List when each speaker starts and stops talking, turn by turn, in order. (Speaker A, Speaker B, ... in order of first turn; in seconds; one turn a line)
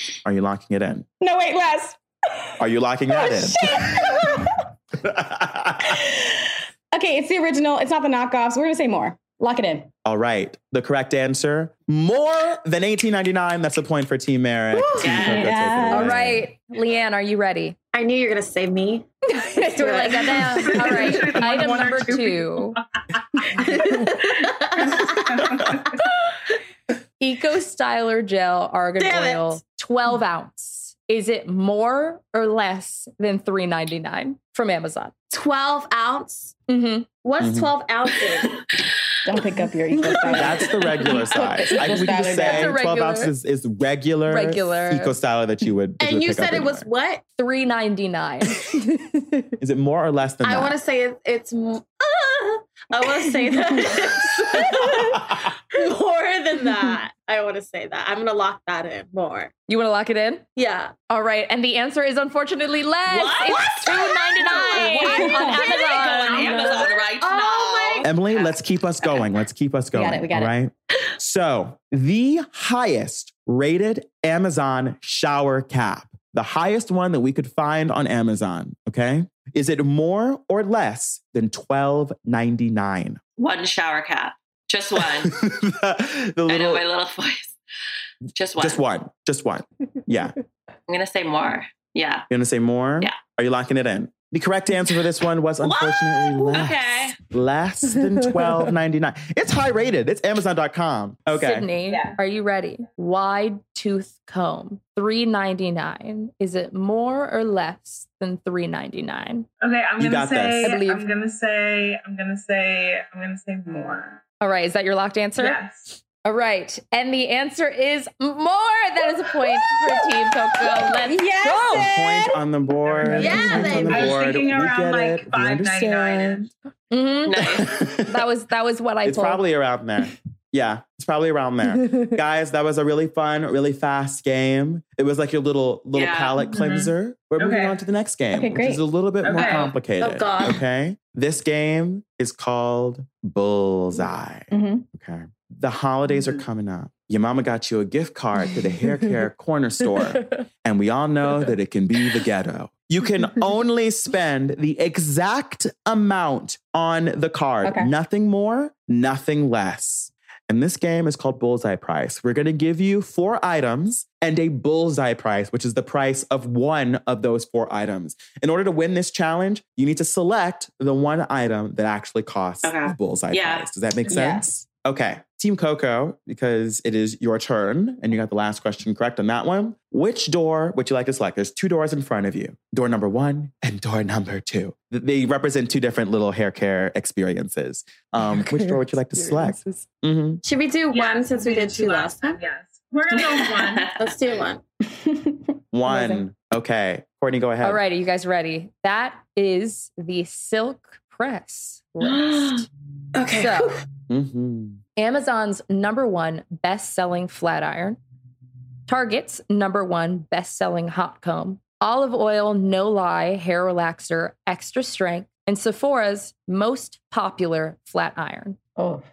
Speaker A: 0.2-1.1
Speaker B: 1.2-2.5
Speaker A: 2.6-4.4
Speaker B: 3.1-4.6
Speaker A: 5.0-6.0
Speaker B: 5.8-9.9
Speaker A: 10.0-16.5
Speaker C: 15.0-15.6
Speaker B: 15.1-16.1
Speaker D: 15.9-17.8
Speaker E: 17.9-19.1
Speaker D: 19.4-22.8
Speaker E: 19.6-21.1
Speaker F: 20.6-22.8
Speaker E: 23.6-25.4
Speaker F: 24.8-26.0
Speaker D: 27.2-35.1
Speaker E: 29.0-29.6
Speaker E: 35.3-36.5
Speaker D: 36.7-37.1
Speaker E: 37.2-38.6
Speaker A: 37.4-37.7
Speaker B: 39.2-42.7
Speaker A: 40.3-46.9
Speaker D: 42.2-43.3
Speaker D: 44.3-45.1
Speaker E: 46.0-47.2
Speaker D: 47.4-49.5
Speaker A: 49.6-50.8
Speaker E: 50.4-59.5
Speaker D: 59.7-60.4
Speaker E: 60.5-60.9
Speaker D: 61.1-66.7
Speaker C: 63.1-69.3
Speaker E: 64.3-68.1
Speaker B: 65.0-65.6
Speaker A: 68.0-83.2
Speaker B: 69.9-70.5
Speaker C: 83.4-85.3
Speaker A: 85.0-86.8
Speaker C: 86.5-87.5
Speaker C: 88.3-88.8
Speaker A: 88.6-90.3
Speaker C: 90.9-92.3
Speaker A: 92.3-101.7
Speaker C: 95.6-97.2
Speaker D: 101.3-109.5
Speaker F: 101.9-102.2
Speaker F: 109.6-114.2
Speaker A: 110.0-110.7
Speaker D: 110.6-111.0
Speaker D: 114.4-121.8
Speaker F: 115.4-115.9
Speaker B: 121.0-122.4
Speaker A: 121.7-126.5
Speaker F: 122.8-126.5
Speaker E: 123.1-124.4
Speaker D: 126.9-129.4
Speaker C: 127.2-127.7
Speaker A: 127.4-128.2
Speaker A: 129.0-190.4
Speaker C: 135.9-136.4
Speaker F: 136.5-137.8
Speaker B: 138.3-138.8
Speaker F: 139.2-139.7
Speaker E: 139.9-140.6
Speaker B: 144.5-144.8
Speaker B: 157.6-157.9
Speaker C: 172.6-173.7
Speaker B: 174.1-174.4
Speaker D: 188.2-189.8
Speaker E: 190.4-192.4
Speaker F: 190.9-193.9
Speaker C: 193.1-194.3
Speaker E: 193.9-194.6
Speaker B: 194.9-195.5
Speaker A: 195.7-197.8
Speaker D: 197.6-202.7
Speaker E: 202.0-202.6
Speaker E: 203.1-203.8
Speaker D: 203.3-203.8
Speaker A: 204.1-204.8
Speaker D: 205.0-208.0
Speaker D: 208.9-218.6
Speaker B: 218.8-219.0